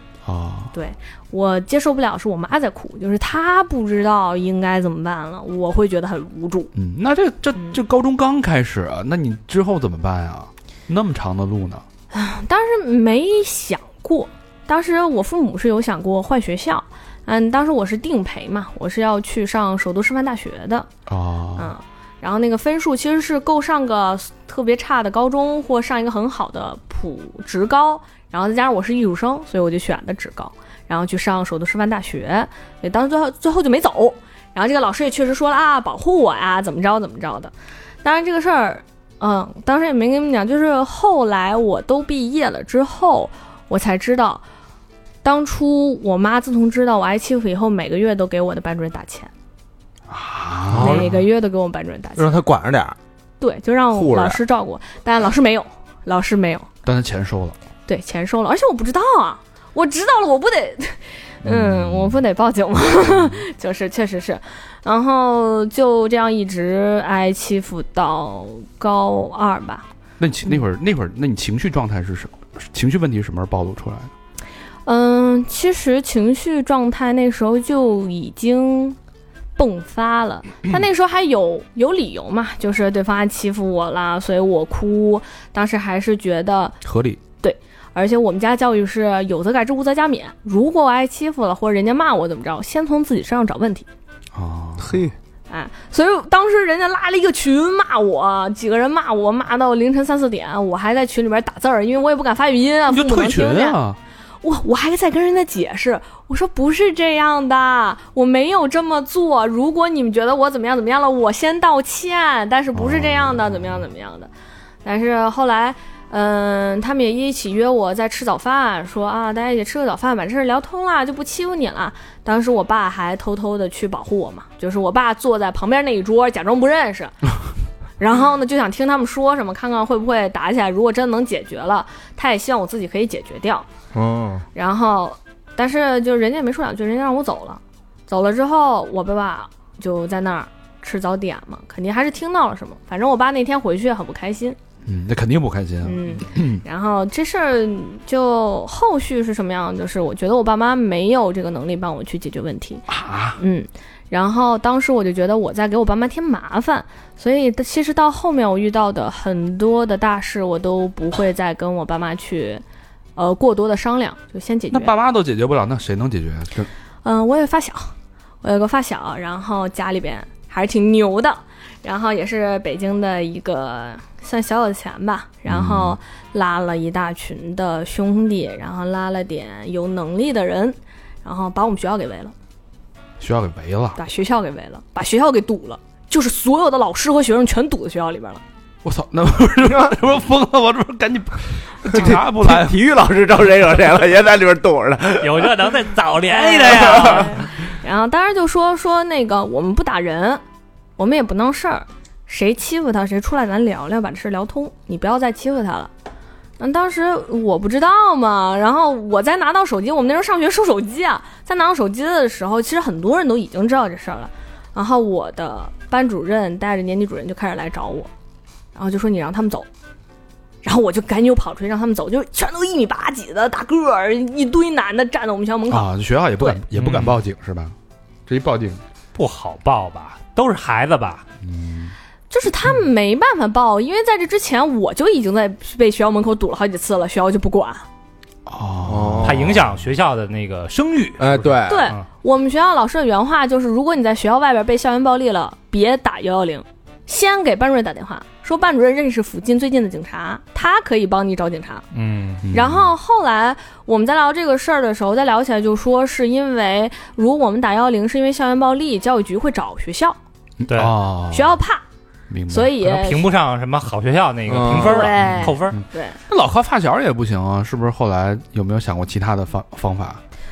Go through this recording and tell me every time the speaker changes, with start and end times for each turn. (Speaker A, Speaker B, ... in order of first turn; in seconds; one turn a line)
Speaker A: 0.2-0.7
Speaker B: 0.7-6.7
Speaker A: 6.7-11.8
Speaker B: 12.1-20.9
Speaker A: 21.1-21.7
Speaker B: 21.6-37.5
Speaker B: 38.0-44.4
Speaker B: 45.2-49.3
Speaker A: 50.1-51.1
Speaker C: 50.7-51.1
Speaker B: 50.7-52.4
Speaker C: 52.1-53.0
Speaker B: 53.4-56.7
Speaker C: 53.9-54.4
Speaker A: 56.8-57.5
Speaker B: 57.9-69.8
Speaker A: 61.4-62.2
Speaker A: 63.0-63.3
Speaker A: 70.2-74.1
Speaker B: 74.8-79.0
Speaker B: 79.5-86.8
Speaker A: 86.8-87.2
Speaker B: 87.4-93.9
Speaker A: 94.3-95.0
Speaker C: 94.8-95.1
Speaker B: 95.5-103.8
Speaker A: 102.9-104.0
Speaker B: 104.4-114.3
Speaker A: 112.7-113.8
Speaker B: 114.8-127.2
Speaker B: 128.0-133.7
Speaker C: 133.9-134.4
Speaker B: 134.5-144.6
Speaker A: 144.8-146.6
Speaker B: 145.8-162.6
Speaker A: 152.9-153.4
Speaker B: 163.2-164.9
Speaker A: 164.7-166.7
Speaker B: 167.0-182.3
Speaker A: 175.5-176.0
Speaker A: 183.2-184.0
Speaker B: 183.9-188.4
Speaker A: 188.8-192.8
Speaker C: 189.6-189.9
Speaker C: 191.9-195.7
Speaker D: 195.2-197.4
Speaker B: 196.3-200.4
Speaker C: 196.7-197.3
Speaker B: 201.0-205.9
Speaker B: 206.6-218.1
Speaker B: 218.7-219.7
Speaker B: 220.6-226.6
Speaker A: 225.7-227.7
Speaker D: 226.8-227.2
Speaker A: 228.3-228.8
Speaker D: 229.1-231.2
Speaker A: 231.4-231.9
Speaker B: 232.3-237.8
Speaker A: 238.4-239.7
Speaker C: 238.9-239.6
Speaker D: 239.2-242.0
Speaker C: 241.2-241.9
Speaker B: 241.7-251.8
Speaker D: 251.9-252.4
Speaker A: 252.4-252.9
Speaker B: 252.5-260.2
Speaker A: 260.6-261.6
Speaker D: 260.7-261.0
Speaker B: 261.3-261.8
Speaker A: 262.3-262.7
Speaker B: 262.5-263.2
Speaker D: 262.8-265.8
Speaker C: 264.5-265.1
Speaker B: 264.8-266.2
Speaker A: 265.3-270.2